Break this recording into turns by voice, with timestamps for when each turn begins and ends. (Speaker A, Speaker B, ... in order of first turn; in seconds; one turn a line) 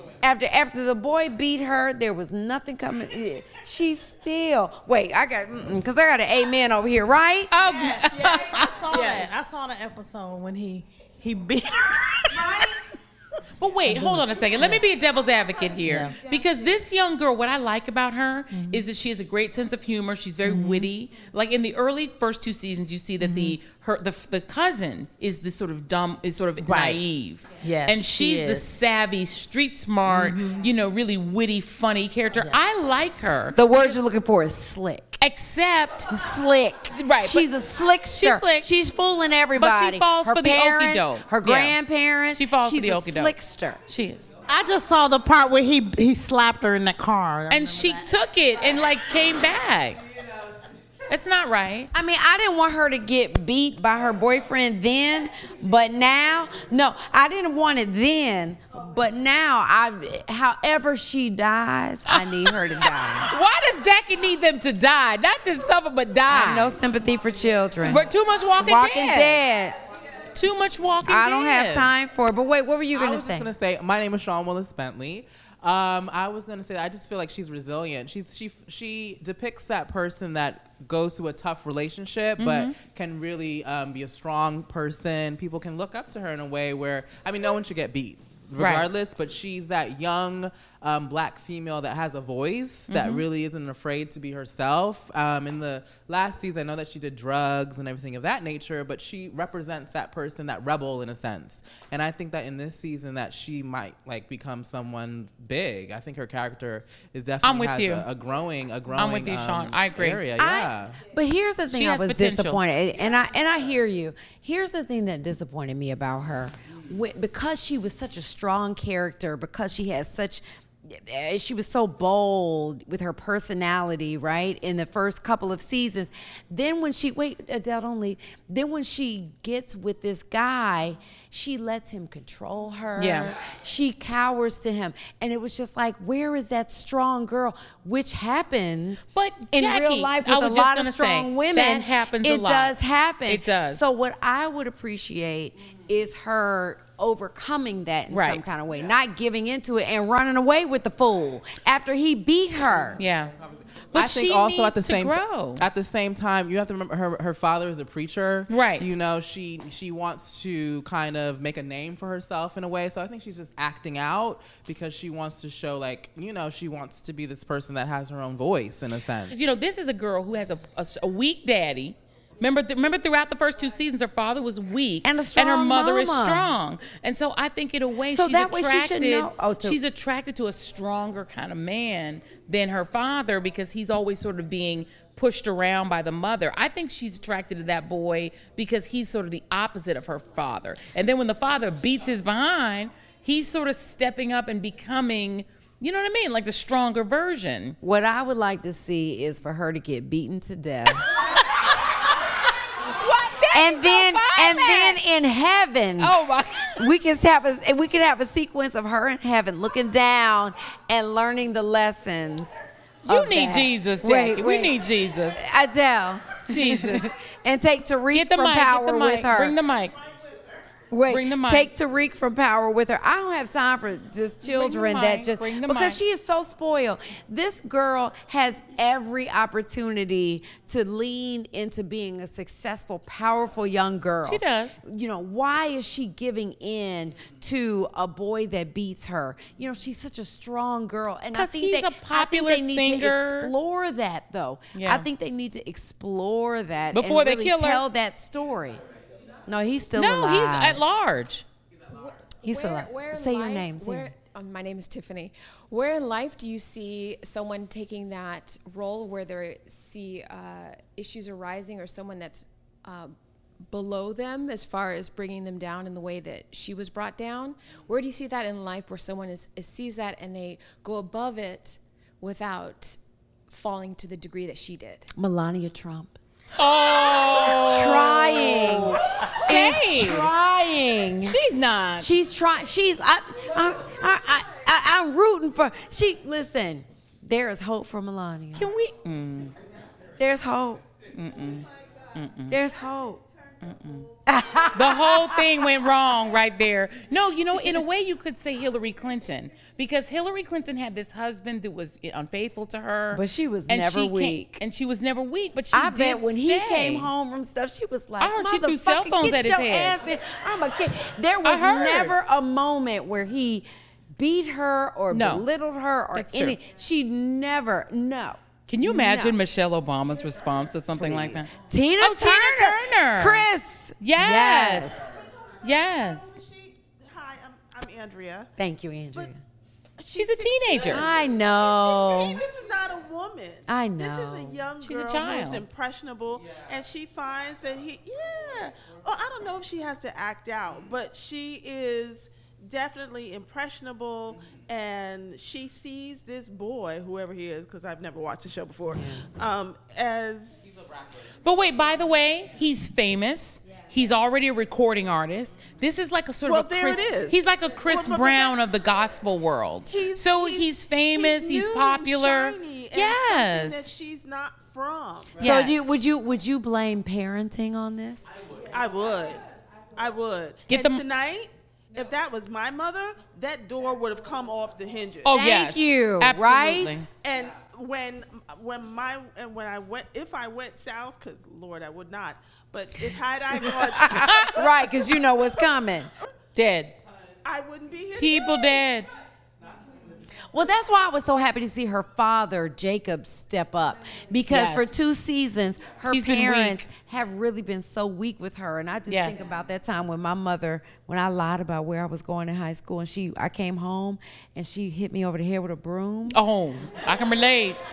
Speaker A: 0.2-7.5
Speaker B: 7.5-9.2
Speaker C: 7.6-12.7
Speaker A: 12.4-12.7
Speaker B: 13.6-34.0
Speaker C: 13.8-14.8
Speaker C: 15.8-16.2
Speaker C: 18.5-18.8
Speaker C: 20.4-20.9
Speaker C: 23.2-23.6
Speaker C: 26.6-27.0
Speaker C: 27.6-28.7
Speaker C: 30.1-30.6
Speaker A: 33.5-35.2
Speaker B: 35.2-36.1
Speaker A: 36.1-43.8
Speaker B: 36.9-37.5
Speaker B: 38.1-38.7
Speaker B: 39.5-41.8
Speaker B: 42.3-43.3
Speaker B: 43.9-44.3
Speaker C: 44.5-48.1
Speaker B: 47.5-50.0
Speaker B: 51.1-51.9
Speaker A: 51.9-63.3
Speaker B: 62.1-62.5
Speaker B: 63.2-66.7
Speaker A: 66.3-68.1
Speaker B: 67.8-69.4
Speaker A: 68.6-69.8
Speaker B: 70.3-71.9
Speaker A: 71.0-73.5
Speaker D: 72.9-111.0
Speaker B: 82.4-82.8
Speaker B: 88.6-88.9
Speaker B: 92.9-93.2
Speaker B: 107.4-108.1
Speaker B: 109.0-110.2
Speaker A: 110.4-153.0
Speaker B: 111.7-112.6
Speaker B: 133.0-133.3
Speaker B: 139.1-142.7
Speaker B: 143.3-143.9
Speaker B: 148.1-148.5
Speaker B: 153.0-153.3
Speaker D: 153.4-169.4
Speaker B: 153.9-155.7
Speaker B: 158.5-158.9
Speaker B: 169.3-197.8
Speaker A: 175.0-176.5
Speaker A: 178.1-179.8
Speaker A: 197.8-201.1
Speaker B: 202.8-205.0
Speaker A: 203.5-206.2
Speaker B: 206.0-206.8
Speaker A: 206.8-214.8
Speaker B: 213.1-215.4
Speaker A: 215.3-219.6
Speaker B: 216.5-217.1
Speaker B: 218.1-220.0
Speaker A: 220.9-248.8
Speaker B: 221.1-221.7
Speaker B: 224.4-226.0
Speaker B: 234.2-234.8
Speaker B: 241.3-243.5
Speaker B: 244.7-245.1
Speaker B: 246.9-247.8
Speaker A: 249.5-250.8
Speaker B: 249.9-251.4
Speaker E: 251.9-263.1
Speaker A: 252.4-254.1
Speaker E: 263.7-275.1
Speaker A: 275.2-276.2
Speaker B: 276.6-280.3
Speaker A: 277.3-281.4
Speaker B: 281.2-282.1
Speaker A: 282.0-288.7
Speaker B: 288.6-289.6
Speaker A: 290.2-290.8
Speaker B: 291.1-292.6
Speaker A: 292.5-293.2
Speaker B: 293.6-294.1
Speaker A: 294.3-295.6
Speaker B: 294.7-307.1
Speaker A: 303.1-304.6
Speaker A: 305.7-313.7
Speaker B: 308.2-310.0
Speaker B: 311.4-312.1
Speaker A: 314.2-319.4
Speaker B: 315.1-315.4
Speaker B: 316.1-316.6
Speaker B: 318.7-323.4
Speaker A: 320.9-325.1
Speaker B: 324.0-325.1
Speaker B: 325.6-326.4
Speaker F: 325.8-328.5
Speaker A: 328.6-329.4
Speaker F: 330.0-350.7
Speaker B: 330.1-331.1
Speaker A: 330.9-332.4
Speaker A: 333.7-334.6
Speaker B: 334.8-335.6
Speaker A: 348.9-349.3
Speaker B: 351.4-363.9
Speaker F: 356.4-358.6
Speaker F: 359.9-365.6
Speaker A: 365.4-368.3
Speaker B: 365.4-365.9
Speaker F: 368.7-369.4
Speaker F: 369.9-375.4
Speaker B: 370.7-371.0
Speaker B: 375.2-377.1
Speaker A: 375.3-377.1
Speaker F: 377.1-385.6
Speaker A: 383.6-386.1
Speaker B: 384.2-384.6
Speaker B: 386.6-386.9
Speaker F: 387.4-388.9
Speaker B: 388.1-389.1
Speaker A: 390.5-406.4
Speaker B: 394.5-394.9
Speaker B: 396.1-396.9
Speaker B: 399.1-399.4
Speaker B: 406.3-407.8